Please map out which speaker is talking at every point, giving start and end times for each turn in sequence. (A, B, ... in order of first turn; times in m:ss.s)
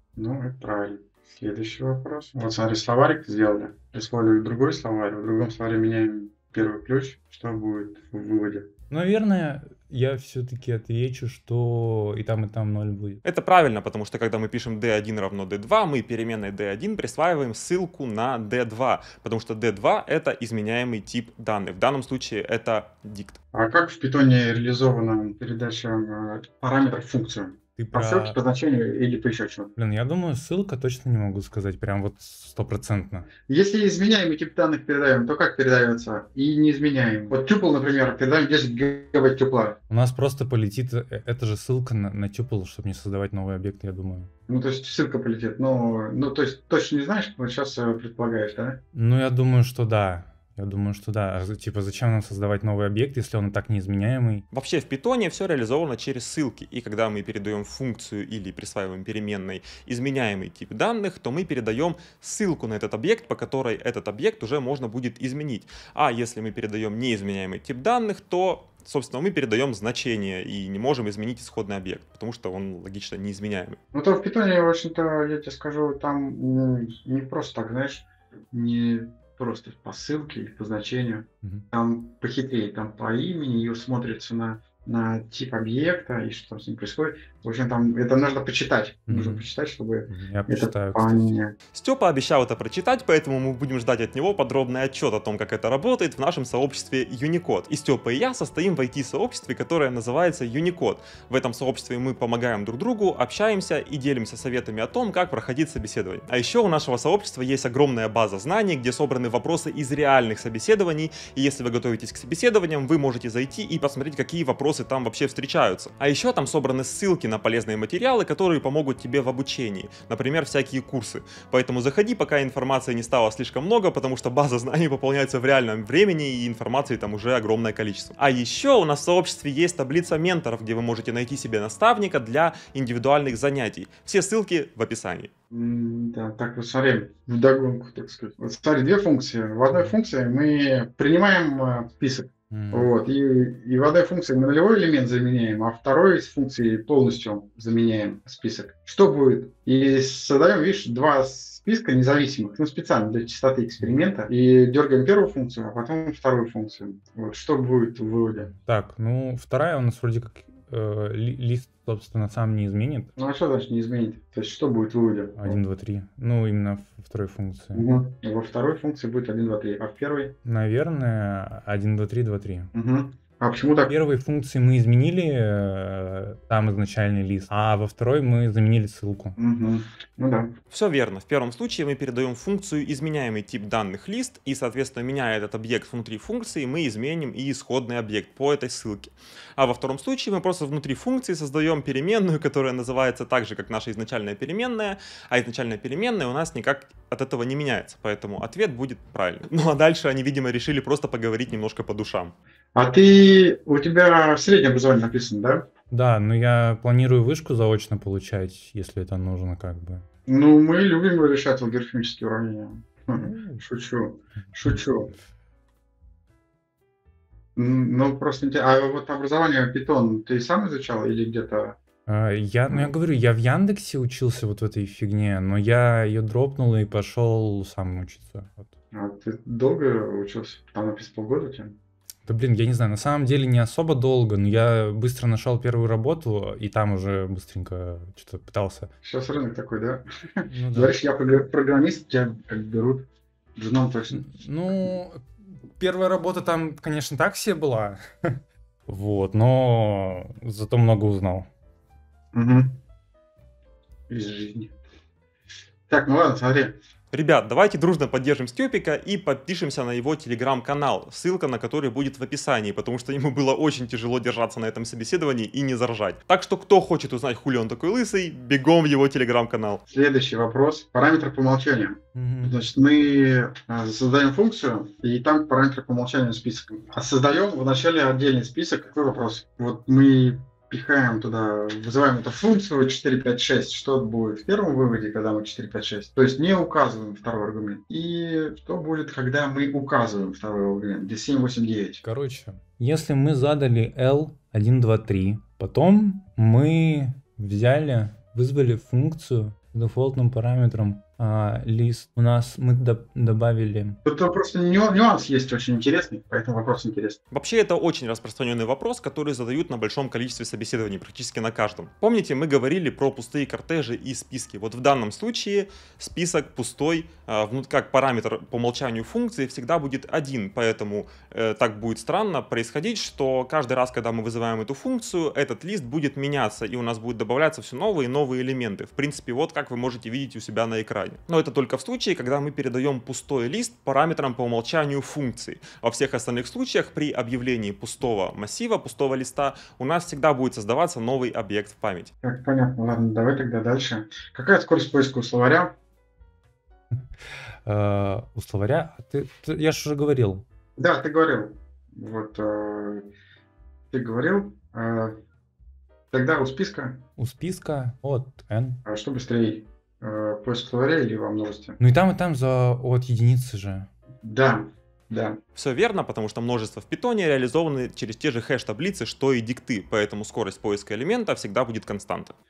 0:00.2-0:08.7 A
0:08.9-0:13.2 B
0:13.2-0:23.4 C
0:23.5-0:29.7 A
0:27.8-0:28.4 B
0:29.8-0:33.3 B
0:33.4-0:39.8 A
0:39.9-0:44.3 B
0:44.5-0:48.8 A
0:48.9-0:54.4 B
0:54.5-1:13.8 C
1:13.9-1:31.5 A
1:29.1-1:29.4 B
1:30.1-1:31.3 B
1:31.7-2:15.3 C
2:15.5-2:38.5 A
2:22.5-2:22.9 B
2:38.5-2:43.1 B
2:43.2-2:45.6 A
2:45.4-2:47.8 B
2:47.7-2:50.3 A
2:50.4-2:52.7 B
2:52.7-2:53.9 A
2:53.9-2:59.4 B
2:59.4-3:00.5 A
3:00.7-3:22.3 C
3:22.7-3:25.6 A
3:25.9-3:30.0 B
3:30.3-3:35.1 A
3:33.2-3:33.6 B
3:37.6-3:41.8 A
3:42.1-3:48.7 B
3:48.9-3:51.8 A
3:52.2-3:58.9 B
3:59.0-4:04.9 A
4:00.5-4:00.9 B
4:04.1-4:05.2 B
4:05.8-4:08.4 B
4:08.9-4:11.5 B
4:12.3-4:12.8 A
4:14.1-4:14.7 A
4:15.9-4:16.8 A
4:17.1-4:29.8 C
4:29.9-4:52.0 A
4:32.1-4:32.6 B
4:52.0-5:04.0 B
5:04.0-5:07.2 A
5:07.3-5:42.1 C
5:42.2-5:45.7 A
5:47.6-5:50.4 B
5:50.8-5:53.0 A
5:53.9-5:55.2 A
5:56.1-5:57.0 A
5:57.2-5:58.8 B
5:58.8-6:01.8 A
6:01.8-6:03.9 B
6:04.2-6:05.4 A
6:05.5-6:12.3 C